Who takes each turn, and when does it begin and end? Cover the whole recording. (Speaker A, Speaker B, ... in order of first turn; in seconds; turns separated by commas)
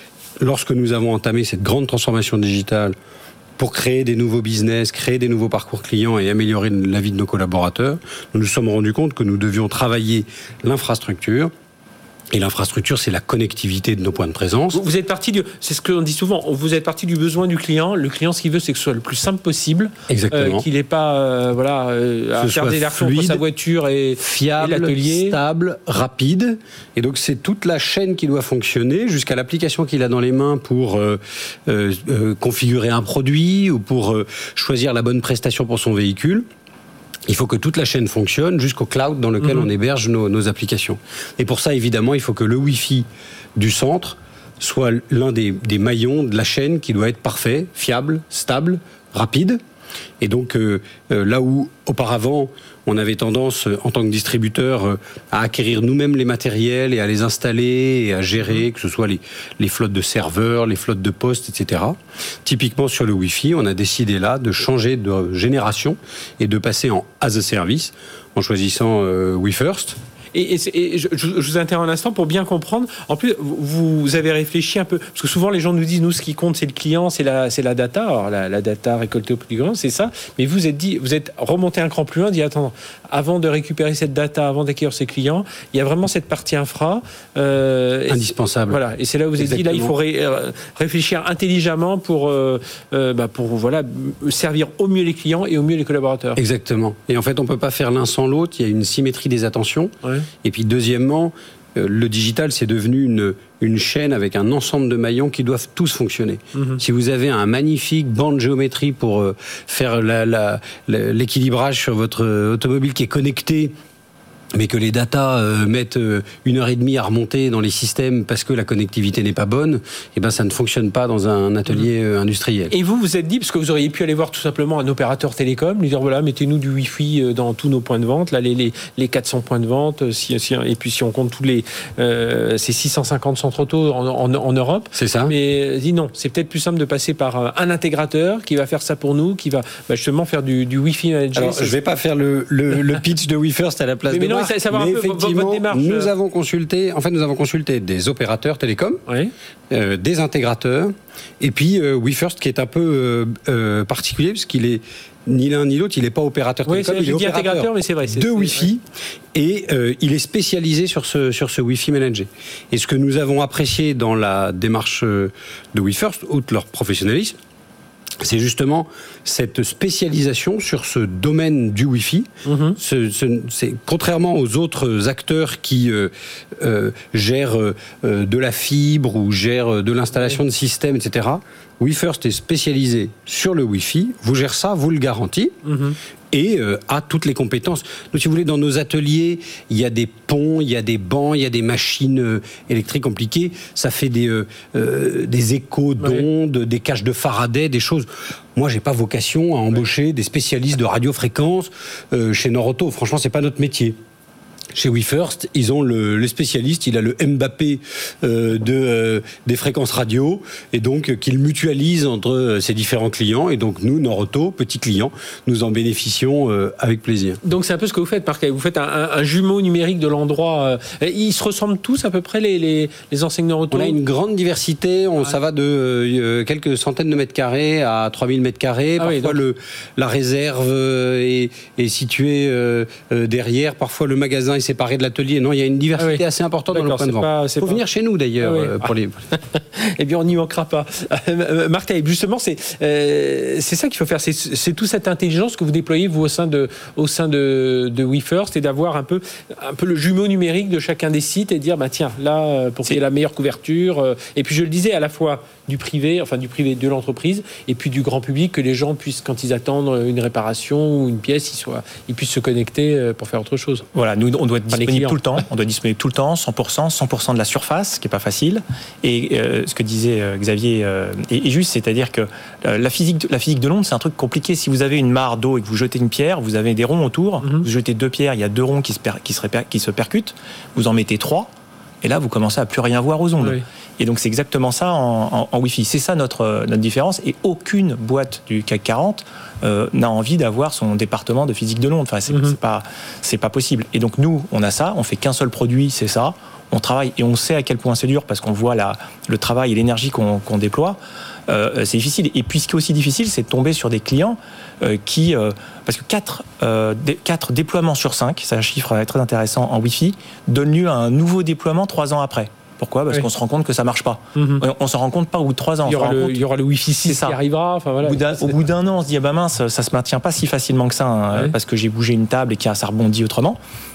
Speaker A: 0.4-3.0, Speaker A: 3.6-11.5, Speaker A: 12.3-14.8, Speaker B: 14.7-25.4, Speaker A: 20.1-20.6, Speaker A: 22.4-23.4, Speaker A: 24.2-36.5, Speaker A: 37.3-49.6, Speaker B: 39.4-39.7, Speaker A: 50.2-70.0, Speaker B: 70.3-96.4, Speaker A: 88.1-88.8, Speaker A: 89.4-89.9, Speaker A: 96.4-113.7, Speaker B: 106.5-106.8, Speaker A: 114.5-122.7, Speaker B: 122.7-141.8, Speaker A: 134.9-135.3, Speaker A: 141.4-149.0, Speaker B: 144.1-146.1, Speaker B: 149.1-149.3, Speaker A: 149.7-158.8, Speaker B: 156.7-158.7, Speaker A: 159.3-167.4, Speaker A: 168.2-185.6, Speaker B: 172.5-172.8, Speaker B: 180.1-180.4, Speaker B: 185.7-186.0, Speaker A: 186.3-204.0, Speaker A: 204.7-217.4, Speaker B: 217.4-224.0, Speaker A: 223.7-239.2, Speaker B: 229.0-229.4, Speaker B: 236.0-237.8, Speaker B: 238.4-263.9, Speaker C: 263.9-281.5, Speaker B: 264.7-265.2, Speaker C: 282.0-316.4, Speaker B: 292.3-292.6, Speaker B: 314.4-314.6, Speaker B: 315.9-318.6, Speaker C: 317.0-317.4, Speaker C: 318.0-323.6